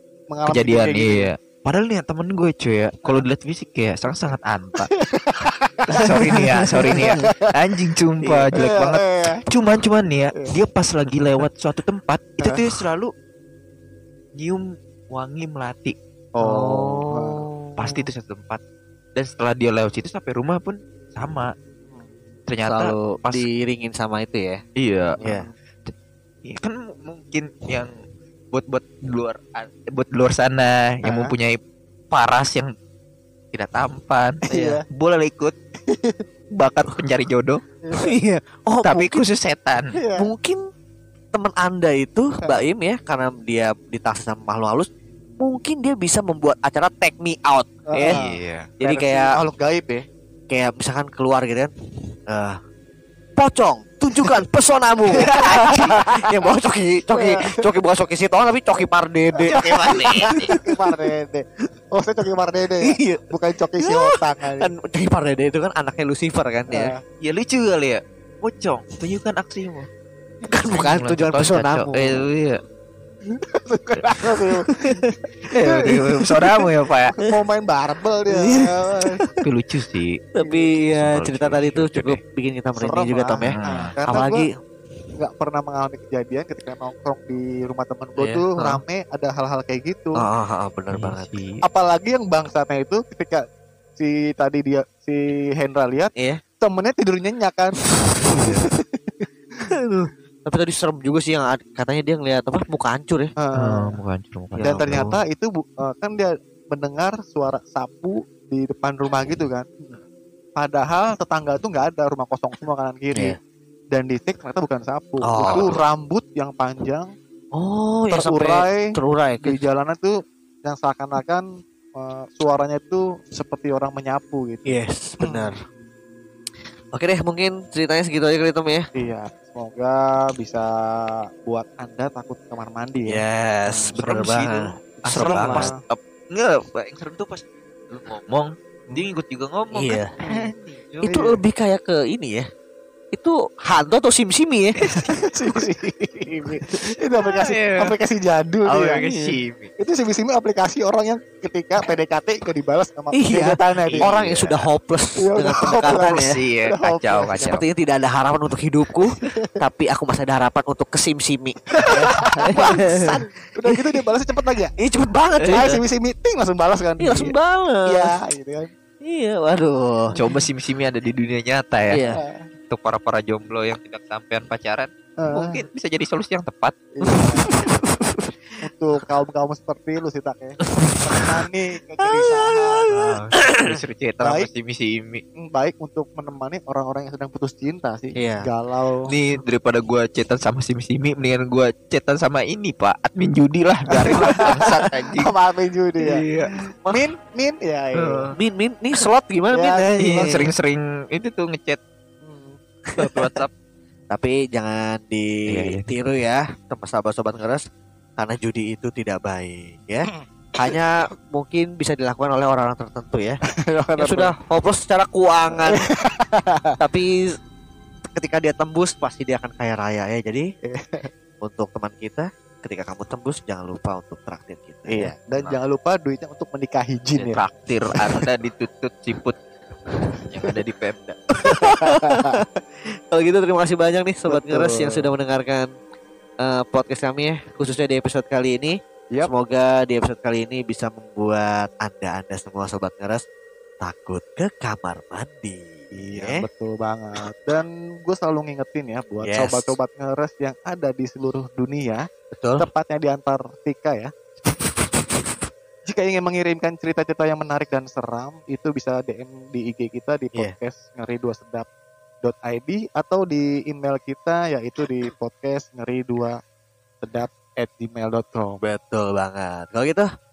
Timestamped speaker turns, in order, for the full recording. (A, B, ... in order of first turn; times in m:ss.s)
0:00.3-0:01.3 A
0:00.5-0:04.9 B
0:04.9-0:06.5 A
0:06.0-0:13.1 B
0:06.3-0:07.2 C
0:07.0-0:07.5 A
0:08.2-0:08.5 C
0:08.6-0:09.4 A
0:14.4-0:16.0 B
0:16.4-0:17.4 A
0:16.4-0:17.9 C
0:17.8-0:18.6 B
0:19.2-0:21.5 B
0:22.5-0:23.4 B
0:22.7-0:24.6 C
0:24.8-0:25.2 B
0:25.2-0:25.5 A
0:26.4-0:27.9 B
0:28.5-0:31.6 B
0:31.0-0:31.3 A
0:32.1-0:32.7 B
0:33.5-0:35.6 B
0:34.5-0:34.8 A
0:34.5-0:34.8 C
0:35.9-0:36.2 A
0:36.6-0:37.6 B
0:37.8-0:38.1 A
0:38.0-0:39.2 C
0:38.8-0:39.9 B
0:39.9-0:40.3 A
0:40.2-0:40.6 C
0:41.3-0:48.2 C
0:47.9-0:50.0 A
0:48.1-0:48.7 B
0:48.8-0:49.4 C
0:50.5-0:51.7 C
0:52.3-0:52.6 C
0:53.4-1:01.0 C
0:55.1-0:56.3 A
0:55.2-0:56.0 B
0:57.2-0:57.6 A
0:59.4-1:04.7 A
0:59.5-1:00.6 B
1:02.8-1:03.2 C
1:03.8-1:06.9 C
1:06.7-1:07.0 A
1:07.2-1:09.9 B
1:10.5-1:12.3 C
1:10.7-1:12.6 B
1:13.3-1:16.5 A
1:14.2-1:15.1 C
1:15.5-1:17.2 B
1:17.2-1:19.2 A
1:18.3-1:19.4 C
1:19.4-1:20.2 B
1:20.4-1:24.5 C
1:20.4-1:20.7 A
1:20.9-1:22.2 B
1:22.8-1:24.5 A
1:23.4-1:24.0 B
1:25.2-1:30.2 A
1:28.2-1:28.8 C
1:30.2-1:31.3 C
1:30.9-1:31.6 B
1:31.6-1:33.4 A
1:34.0-1:37.8 A
1:38.3-1:39.7 A
1:39.7-1:43.3 C
1:43.4-1:43.9 A
1:43.6-1:45.2 B
1:44.6-1:45.1 C
1:44.6-1:49.7 A
1:50.6-1:53.4 A
1:53.9-1:57.1 A
1:55.2-1:55.8 C
1:57.5-1:59.6 C
1:58.1-2:01.5 A
2:02.0-2:05.5 A
2:04.7-2:05.6 C
2:06.9-2:08.9 C
2:09.0-2:13.9 A
2:13.1-2:15.7 C
2:14.0-2:21.0 B
2:15.1-2:15.8 A
2:19.7-2:20.2 C
2:20.2-2:21.4 A
2:21.0-2:22.5 C
2:23.1-2:24.8 C
2:24.8-2:25.2 B
2:25.1-2:29.2 A
2:27.2-2:27.9 B
2:28.7-2:29.7 B
2:29.8-2:34.1 A
2:33.1-2:36.4 C
2:33.9-2:34.7 B
2:35.2-2:37.5 A
2:35.9-2:37.7 B
2:37.4-2:43.2 C
2:39.2-2:39.5 A
2:41.8-2:42.5 B
2:41.9-2:44.7 A
2:44.8-2:45.7 C
2:45.4-2:47.3 A
2:47.0-2:48.1 C
2:47.9-2:48.7 A
2:49.1-2:50.2 C
2:50.2-2:52.0 B
2:51.9-2:52.2 C
2:52.2-2:52.4 A
2:52.7-2:56.8 B
2:55.2-2:55.6 A
2:57.0-2:57.5 A
2:57.0-2:58.3 C
2:58.6-3:02.8 A
3:00.7-3:01.3 C
3:02.0-3:03.7 C
3:02.9-3:05.2 B
3:04.2-3:04.5 A
3:05.4-3:09.1 A
3:08.2-3:08.5 C
3:09.1-3:15.3 B
3:13.9-3:16.2 A
3:14.1-3:14.8 C
3:16.0-3:16.5 B
3:16.9-3:18.3 A
3:18.0-3:18.4 B
3:18.4-3:20.5 C
3:19.5-3:20.4 A
3:20.0-3:21.8 B
3:22.2-3:22.6 A
3:23.0-3:23.4 C
3:23.0-3:23.5 B
3:24.1-3:27.6 C
3:25.5-3:25.9 B
3:28.2-3:33.4 C
3:33.7-3:34.3 A
3:34.0-3:35.9 C
3:35.7-3:36.8 A
3:36.8-3:37.1 C
3:38.1-3:40.5 C
3:40.6-3:41.1 A
3:41.4-3:45.1 C
3:44.9-3:47.4 A
3:47.2-3:49.4 B
3:50.1-3:51.2 B
3:51.4-3:52.4 A
3:51.5-3:52.4 C
3:53.1-3:55.7 C
3:54.3-3:55.1 A
3:56.4-4:03.2 C
4:03.8-4:06.4 C
4:05.9-4:12.0 A
4:09.2-4:09.8 C
4:12.3-4:12.6 C
4:12.6-4:14.1 A
4:15.9-4:21.7 A
4:22.2-4:26.4 A
4:27.0-4:28.6 A
4:28.6-4:30.1 C